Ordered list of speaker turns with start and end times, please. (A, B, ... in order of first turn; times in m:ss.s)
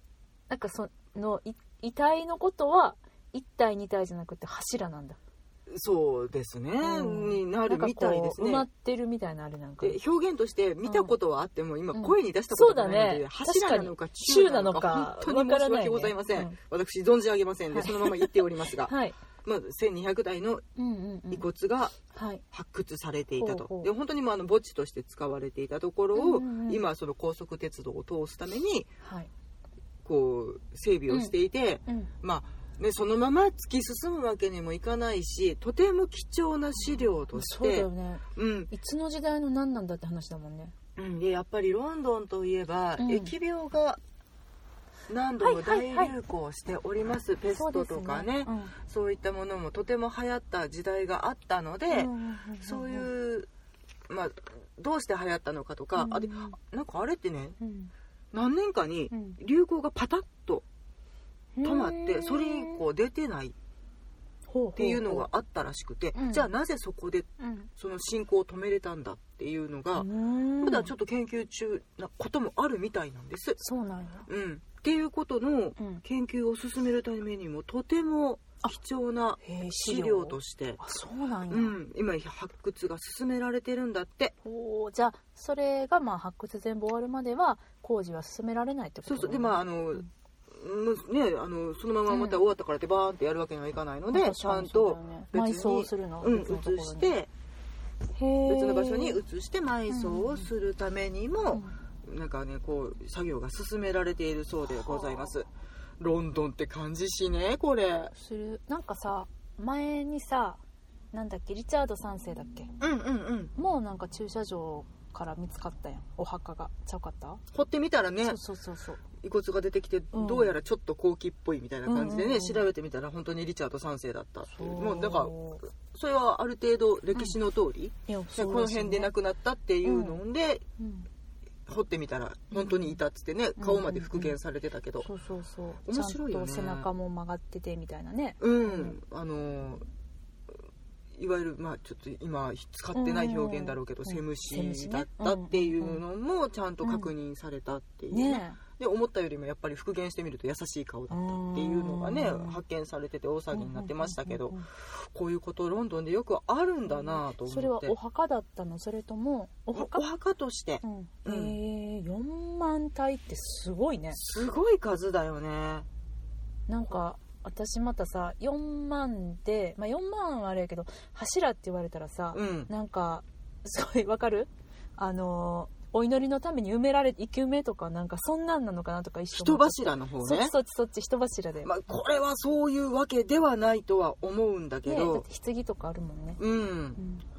0:00.5-0:05.2 A
0:05.7-0:08.7 B
0:06.8-0:10.0 A
0:09.8-0:20.6 B
0:10.8-0:11.1 A
0:11.9-0:16.6 A
0:17.7-0:19.2 A
0:20.8-0:21.4 A
0:21.3-0:21.9 B
0:22.1-0:22.4 A
0:22.5-0:28.9 B
0:23.4-0:23.9 A
0:26.1-0:26.8 A
0:29.0-0:29.3 A
0:30.0-0:38.7 B
0:37.3-0:40.7 A
0:41.0-0:44.0 B
0:43.0-0:43.3 A
0:45.1-0:52.1 B
0:45.4-0:46.1 A
0:47.5-0:48.7 A
0:51.9-0:53.1 A
0:52.6-0:53.5 B
0:54.1-0:57.6 B
0:56.0-0:56.6 A
0:57.6-0:57.9 A
0:58.3-1:00.6 B
0:59.1-0:59.4 A
1:01.6-1:02.8 A
1:01.6-1:03.5 B
1:04.5-1:05.3 A
1:04.8-1:10.1 B
1:06.1-1:06.5 A
1:07.4-1:07.7 A
1:10.0-1:10.9 A
1:10.6-1:13.6 B
1:13.6-1:14.3 A
1:14.3-1:20.8 B
1:15.8-1:16.0 A
1:19.4-1:21.7 A
1:21.5-1:24.3 B
1:24.4-1:30.1 A
1:29.0-1:37.3 B
1:32.1-1:32.4 A
1:34.1-1:37.1 A
1:38.1-1:39.2 A
1:38.4-1:45.5 B
1:39.9-1:40.5 A
1:41.5-1:41.8 A
1:44.7-1:45.3 A
1:46.0-1:48.1 B
1:48.1-1:50.6 A
1:51.1-1:52.7 A
1:52.8-1:53.5 B
1:53.6-1:57.4 A
1:57.5-1:58.4 B
1:58.2-1:59.0 A
1:59.2-2:10.6 B
2:00.1-2:00.5 A
2:01.8-2:02.6 A
2:04.5-2:05.6 A
2:08.1-2:09.1 A
2:09.8-2:10.2 A
2:10.8-2:11.1 A
2:11.7-2:15.1 B
2:12.5-2:13.0 A
2:13.6-2:14.4 A
2:15.0-2:19.0 A
2:15.8-2:16.9 B
2:18.4-2:19.8 B
2:21.1-2:37.9 B
2:22.9-2:26.0 A
2:26.8-2:27.1 A
2:28.1-2:28.6 A
2:31.1-2:32.6 A
2:33.5-2:34.6 A
2:36.9-2:40.0 A
2:39.7-2:41.6 B
2:40.8-2:44.2 A
2:44.1-2:45.9 B
2:46.7-3:01.7 A
2:52.3-2:52.7 B
2:59.3-3:00.5 B
3:01.6-3:05.2 B
3:04.8-3:06.4 A
3:06.4-3:07.0 B
3:07.0-3:07.2 A